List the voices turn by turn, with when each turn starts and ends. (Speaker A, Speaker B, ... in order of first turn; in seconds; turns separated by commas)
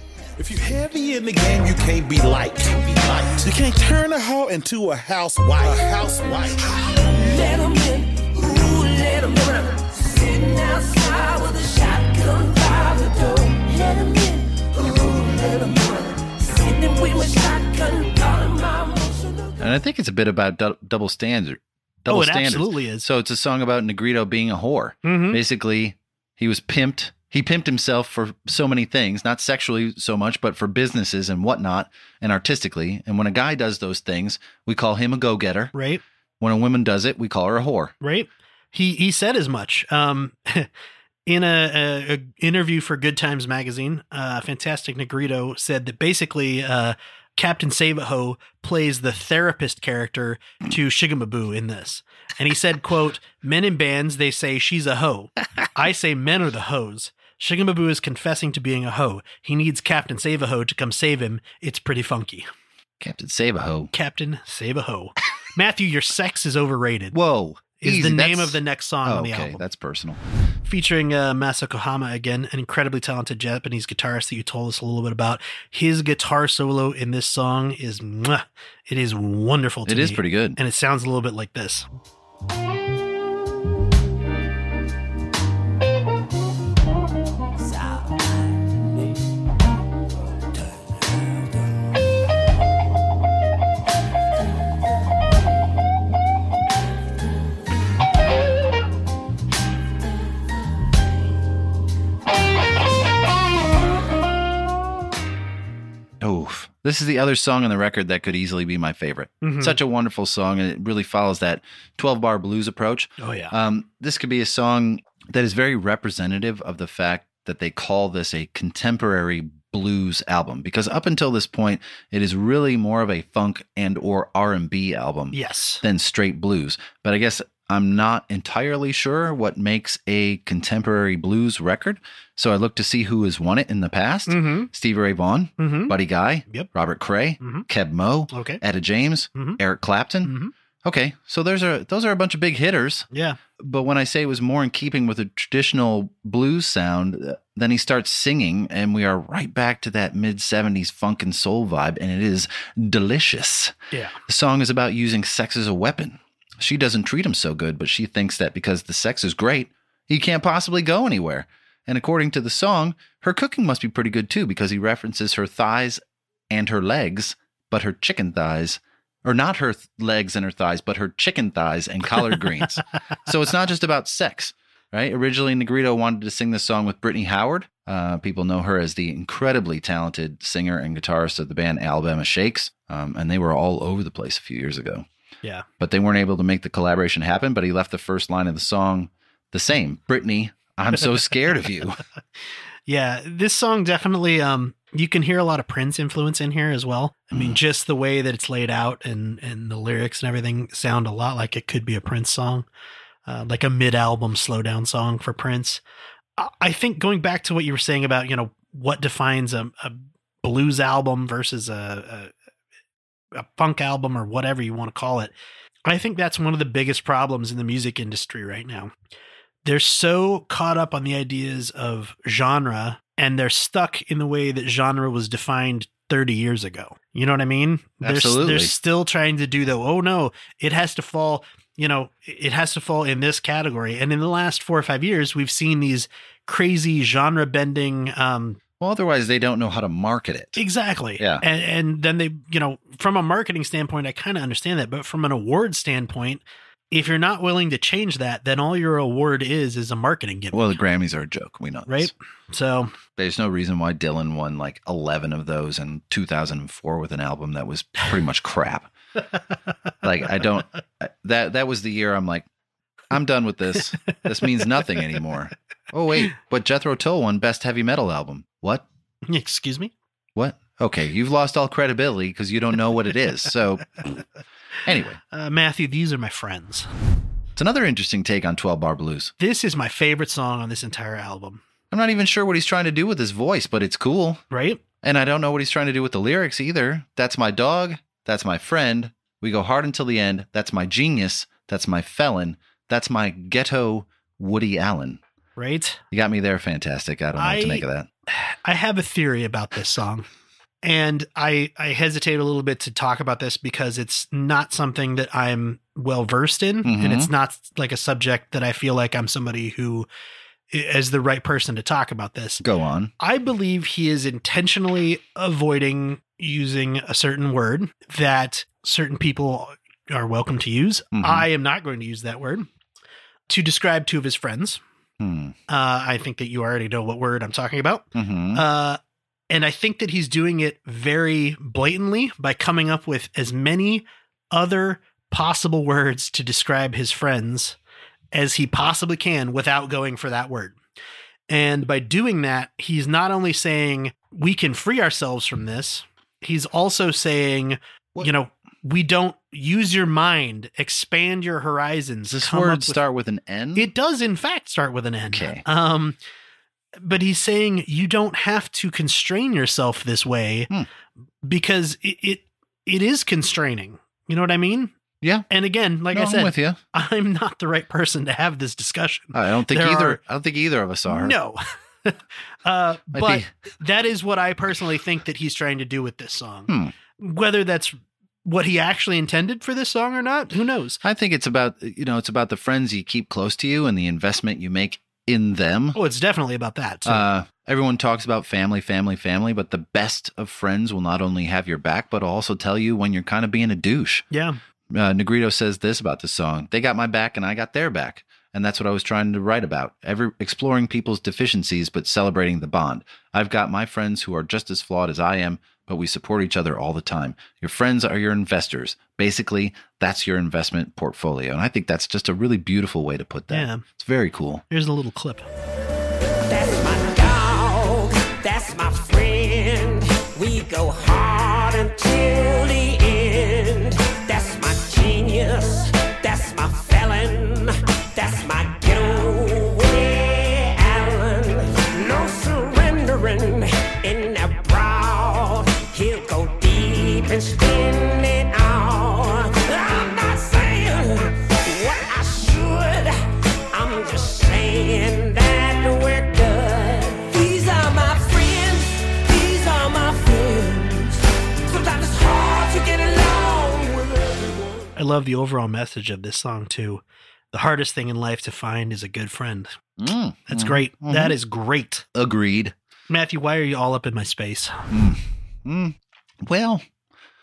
Speaker A: 0.4-7.0, Speaker B: 7.1-19.6, Speaker C: 19.6-35.7, Speaker D: 22.1-23.0, Speaker D: 25.0-25.4, Speaker D: 35.7-36.0, Speaker C: 36.4-37.9, Speaker D: 38.0-40.7, Speaker D: 41.2-62.5, Speaker C: 63.0-63.9, Speaker D: 63.9-67.1, Speaker C: 67.1-70.2, Speaker D: 67.8-69.6, Speaker D: 70.7-81.8, Speaker C: 79.8-80.6, Speaker C: 106.2-143.1, Speaker D: 109.4-109.8, Speaker D: 113.2-113.5, Speaker D: 125.3-125.8, Speaker D: 134.3-134.7, Speaker D: 135.6-135.9, Speaker D: 137.4-137.7, Speaker D: 138.3-138.6, Speaker D: 140.2-140.5, Speaker D: 143.1-143.4, Speaker C: 143.6-153.7, Speaker D: 153.9-154.2, Speaker C: 154.3-185.1, Speaker C: 185.8-192.0, Speaker D: 192.9-202.7, Speaker D: 203.2-205.8, Speaker D: 206.4-212.3, Speaker D: 213.3-215.3, Speaker D: 215.8-218.9, Speaker D: 219.6-238.6, Speaker C: 228.0-228.7, Speaker C: 238.8-240.6, Speaker D: 240.6-250.7, Speaker C: 241.2-241.4, Speaker C: 250.5-252.1, Speaker D: 251.9-252.9, Speaker C: 253.2-258.9, Speaker C: 260.0-262.5, Speaker C: 263.1-268.8, Speaker D: 269.3-269.9, Speaker C: 270.4-274.1, Speaker C: 274.8-275.2, Speaker D: 275.3-276.9, Speaker C: 277.6-279.3, Speaker D: 279.4-281.6, Speaker C: 281.9-284.4, Speaker D: 284.5-284.8, Speaker C: 285.0-295.2, Speaker D: 295.6-296.0, Speaker C: 296.1-298.1, Speaker D: 297.4-300.2, Speaker D: 300.8-310.1, Speaker C: 306.8-307.3, Speaker D: 310.7-312.6, Speaker C: 312.6-313.1, Speaker D: 313.2-322.7, Speaker C: 321.1-321.4, Speaker D: 323.5-324.8, Speaker C: 325.2-325.6, Speaker D: 325.7-329.0, Speaker C: 328.1-328.6, Speaker D: 329.5-337.8, Speaker D: 338.3-340.8, Speaker D: 341.5-353.0, Speaker C: 352.2-353.9, Speaker D: 353.7-356.2, Speaker C: 355.3-355.6, Speaker D: 357.0-360.7, Speaker D: 361.4-364.9, Speaker C: 365.2-365.5, Speaker D: 365.5-370.2, Speaker C: 366.1-366.8, Speaker C: 369.3-371.4, Speaker D: 371.1-381.0, Speaker C: 373.1-373.5, Speaker C: 376.7-376.9, Speaker C: 381.0-386.0, Speaker D: 385.9-387.2, Speaker C: 387.1-394.2, Speaker D: 394.3-394.6, Speaker C: 394.9-414.6, Speaker D: 413.5-413.8, Speaker D: 414.7-415.5, Speaker B: 416.5-443.2, Speaker B: 443.7-454.6, Speaker D: 454.9-459.7, Speaker C: 460.0-461.4, Speaker D: 460.5-462.1, Speaker C: 462.1-462.7, Speaker D: 463.1-464.9, Speaker C: 464.9-466.8